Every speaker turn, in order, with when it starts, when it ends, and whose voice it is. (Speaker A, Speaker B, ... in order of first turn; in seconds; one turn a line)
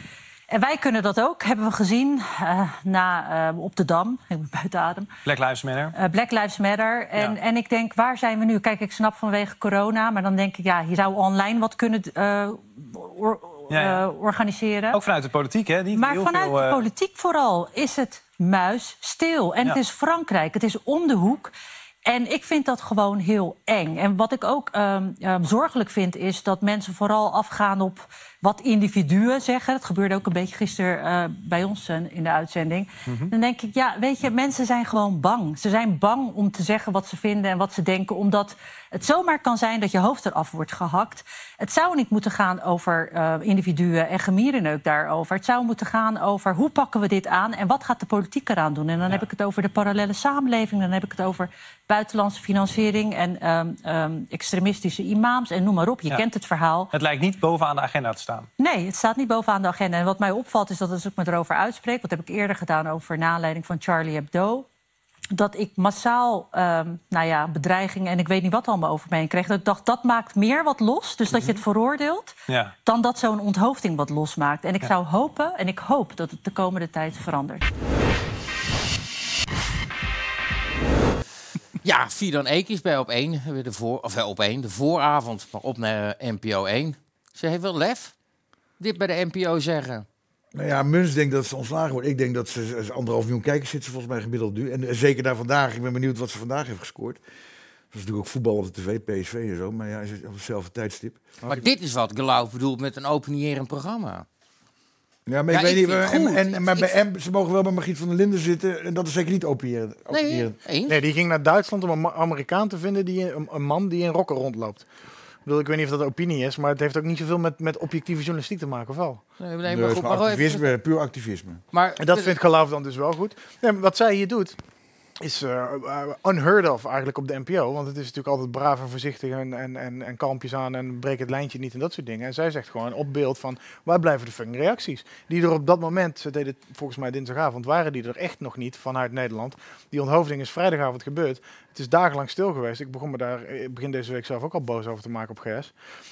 Speaker A: 0.5-5.2
Speaker B: 5.3-5.9
Speaker A: 6.0-15.0
Speaker B: 13.7-14.0
Speaker B: 14.9-16.8
Speaker A: 15.9-21.5
Speaker A: 22.1-56.9
Speaker B: 56.9-58.5
Speaker A: 58.6-64.7
Speaker A: 65.3-77.6
Speaker B: 71.3-71.6
Speaker C: 81.8-88.1
Speaker C: 88.8-90.1
Speaker D: 90.5-97.2
Speaker D: 97.9-101.2
Speaker C: 101.5-104.3
Speaker D: 105.3-110.5
Speaker C: 105.5-106.9
Speaker C: 110.1-111.0
Speaker E: 110.9-114.9
Speaker E: 115.5-119.2
Speaker C: 119.4-120.7
Speaker D: 119.7-121.6
Speaker C: 121.7-122.3
Speaker E: 122.0-124.6
Speaker E: 125.2-145.7